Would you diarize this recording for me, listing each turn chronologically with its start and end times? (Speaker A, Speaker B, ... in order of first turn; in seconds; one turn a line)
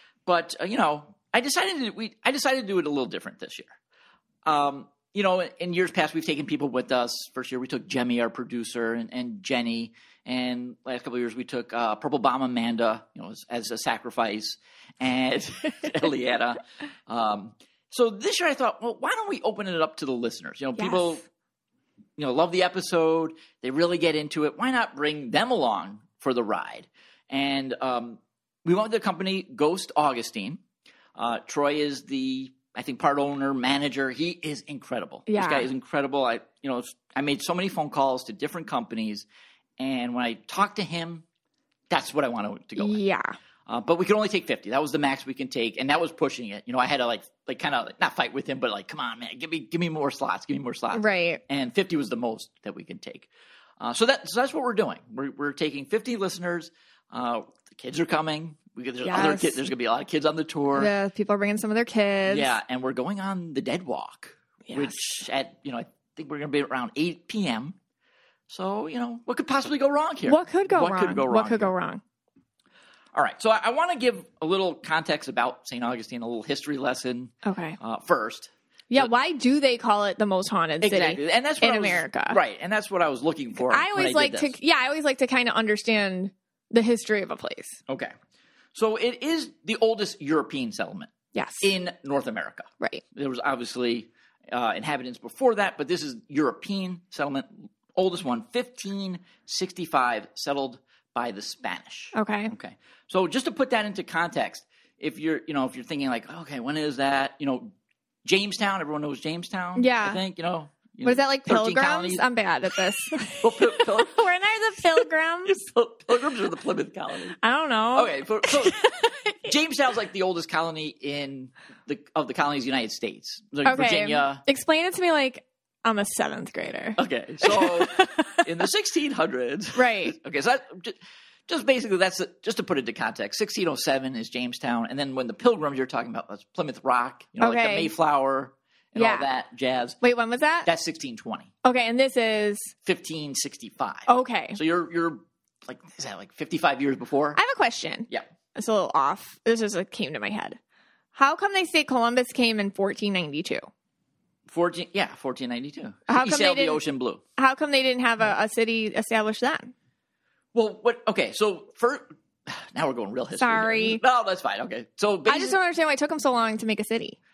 Speaker A: 0.3-3.7
Speaker A: 4.5-21.2
Speaker B: 20.8-21.2
Speaker A: 22.2-30.6
Speaker A: 31.2-39.3
Speaker B: 35.3-35.7
Speaker A: 39.8-41.2
Speaker A: 41.9-43.0
Speaker B: 42.8-43.4
Speaker A: 43.7-53.3
Speaker B: 50.9-51.4
Speaker A: 53.8-60.9
Speaker B: 59.0-59.6
Speaker B: 60.7-62.5
Speaker A: 62.3-67.8
Speaker B: 64.7-65.0
Speaker A: 68.5-71.7
Speaker B: 70.3-72.0
Speaker A: 73.1-79.1
Speaker B: 77.4-77.8
Speaker B: 78.9-82.4
Speaker A: 80.8-84.5
Speaker B: 83.7-87.8
Speaker A: 87.9-88.1
Speaker A: 88.7-91.1
Speaker B: 91.3-91.7
Speaker A: 91.6-107.7
Speaker B: 102.1-102.5
Speaker A: 108.2-112.2
Speaker B: 109.8-110.2
Speaker B: 111.0-115.6
Speaker A: 113.4-114.2
Speaker A: 115.5-117.4
Speaker B: 117.4-119.5
Speaker A: 117.9-118.8
Speaker A: 119.5-124.4
Speaker B: 123.6-128.3
Speaker A: 127.0-130.9
Speaker B: 129.8-130.1
Speaker A: 131.5-140.0
Speaker B: 137.4-137.9
Speaker B: 138.9-139.2
Speaker B: 140.0-140.7
Speaker A: 140.6-141.5
Speaker B: 141.6-142.7
Speaker A: 142.8-147.4
Speaker B: 144.1-144.6
Speaker B: 147.4-150.6
Speaker B: 151.1-153.7
Speaker A: 154.5-157.2
Speaker B: 156.1-156.8
Speaker B: 157.4-159.7
Speaker A: 160.5-165.6
Speaker B: 163.3-164.0
Speaker B: 165.3-167.2